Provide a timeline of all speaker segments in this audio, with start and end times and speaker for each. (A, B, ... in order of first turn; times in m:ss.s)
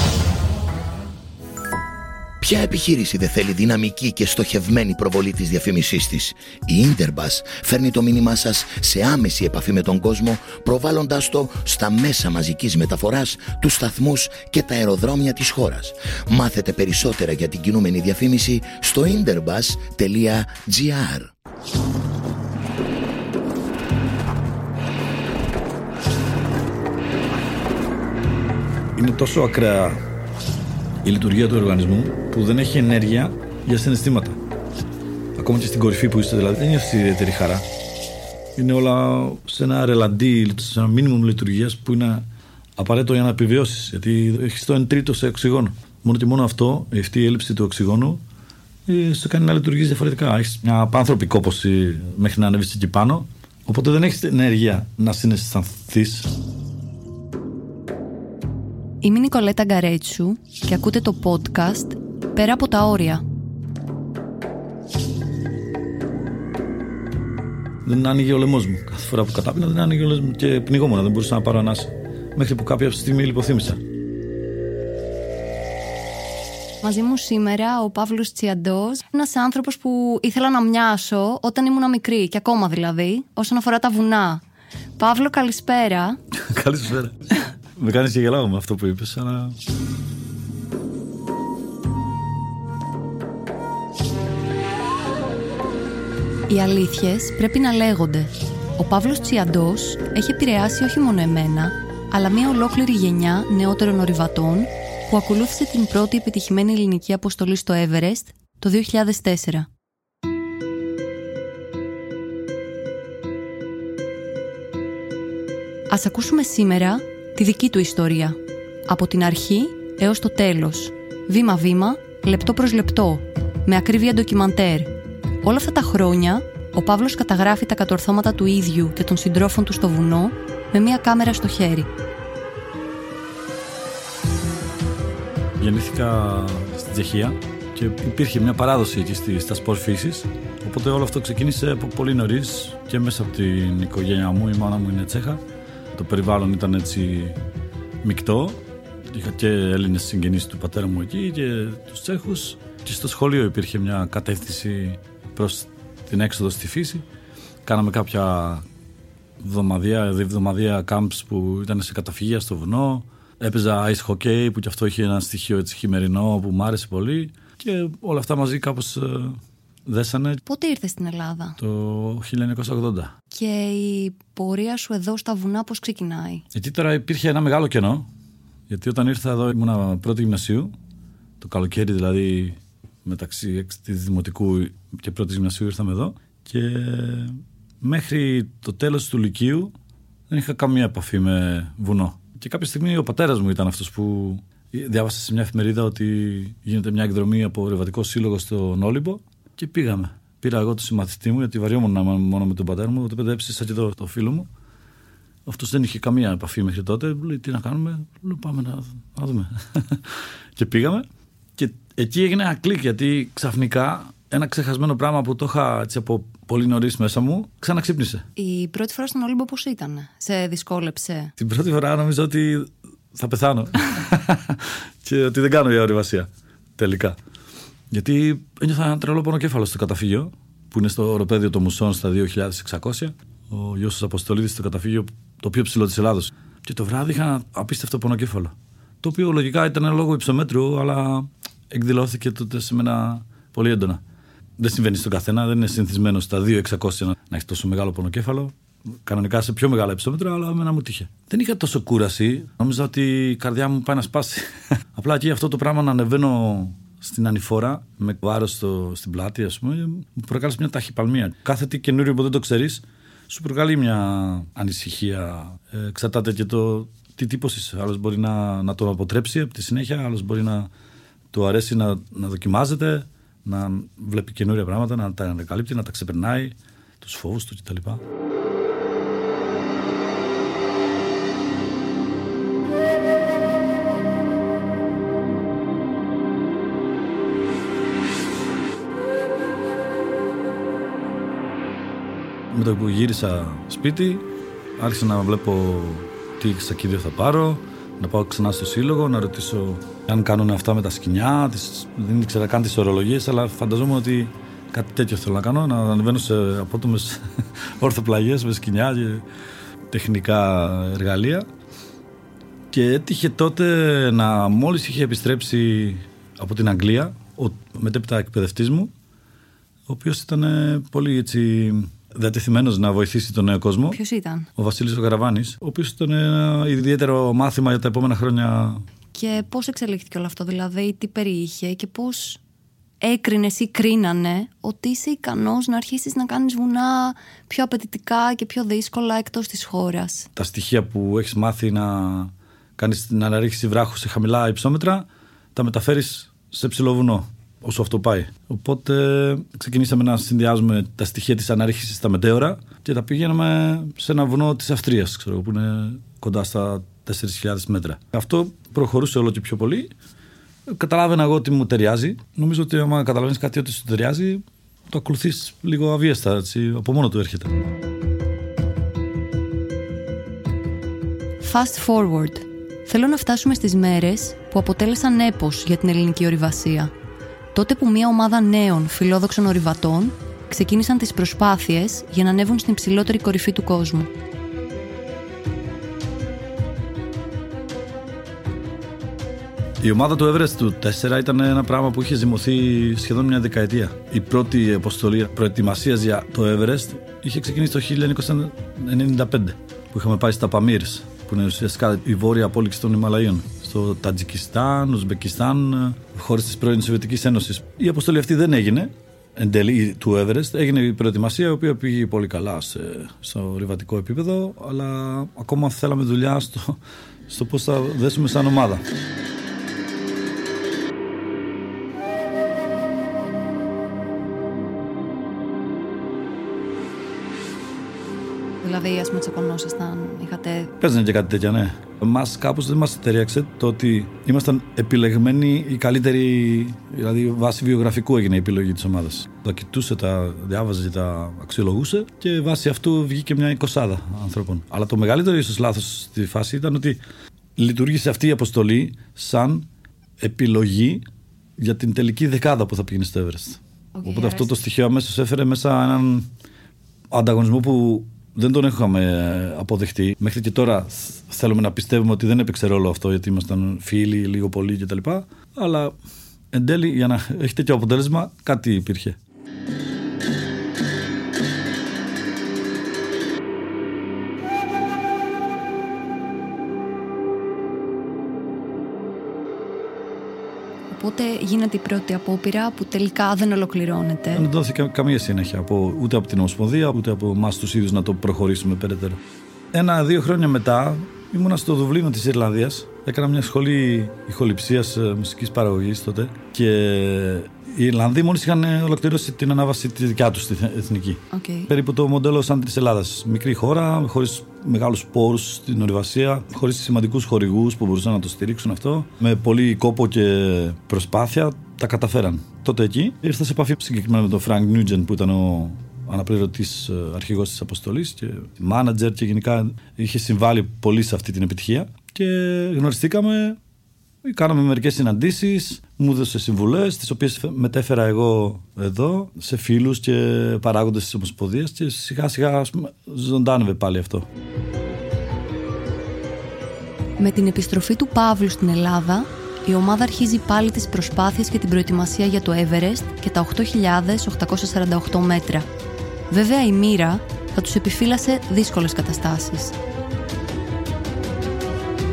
0:02.4-0:21.3 A
0:29.0-0:30.0 B
0:31.0-0:34.4 B
0:35.4-0:37.7 B
0:38.6-0:42.3 B
0:42.8-0:48.2 B
0:48.9-0:56.3 B
0:59.0-1:03.2 C
1:07.8-1:13.8 B
1:16.8-1:24.4 C
1:25.0-1:26.2 C
1:26.4-1:29.6 B
1:36.5-1:49.7 C
1:55.9-2:04.9 C
2:05.4-2:11.9 C
2:15.6-2:25.4 B
2:25.9-2:27.4 B
2:28.0-2:37.1 B
2:37.6-2:38.6 B
2:39.4-2:50.4 B
2:50.5-2:51.6 C
2:51.6-2:53.1 B
2:53.3-2:56.4 C
2:56.5-2:58.1 B
2:58.7-3:00.7 B
3:01.4-3:09.7 B
3:10.3-3:24.5 B
3:25.5-3:38.2 B
3:38.4-3:41.3 C
3:41.4-3:47.2 B
3:47.9-4:04.0 B
4:04.6-4:30.7 B
4:31.3-4:38.0 B
4:52.5-4:54.2 B
4:54.8-5:09.3 B
5:09.9-5:11.5 B
5:12.7-5:18.9 B
5:19.9-5:24.0 B
5:23.9-5:24.5 C
5:24.6-5:28.8 B
5:29.1-5:32.4 C
5:33.0-5:40.3 C
5:40.4-5:59.9 B
6:00.7-6:07.5 B
6:11.4-6:16.9 C
6:17.5-6:24.1 C
6:29.8-6:58.8 B
7:08.6-7:10.8 C
7:10.8-7:27.0 B
7:27.6-7:29.7 B
7:30.2-7:31.0 B
7:31.6-7:36.3 B
7:34.0-7:34.6 C
7:37.1-7:46.0 B
7:46.5-7:49.2 B
8:00.9-8:04.5 C
8:04.3-8:09.2 B
8:09.7-8:43.6 B
8:21.3-8:21.7 C
8:44.2-8:54.3 B
8:57.2-9:05.7 C
9:06.3-9:09.8 C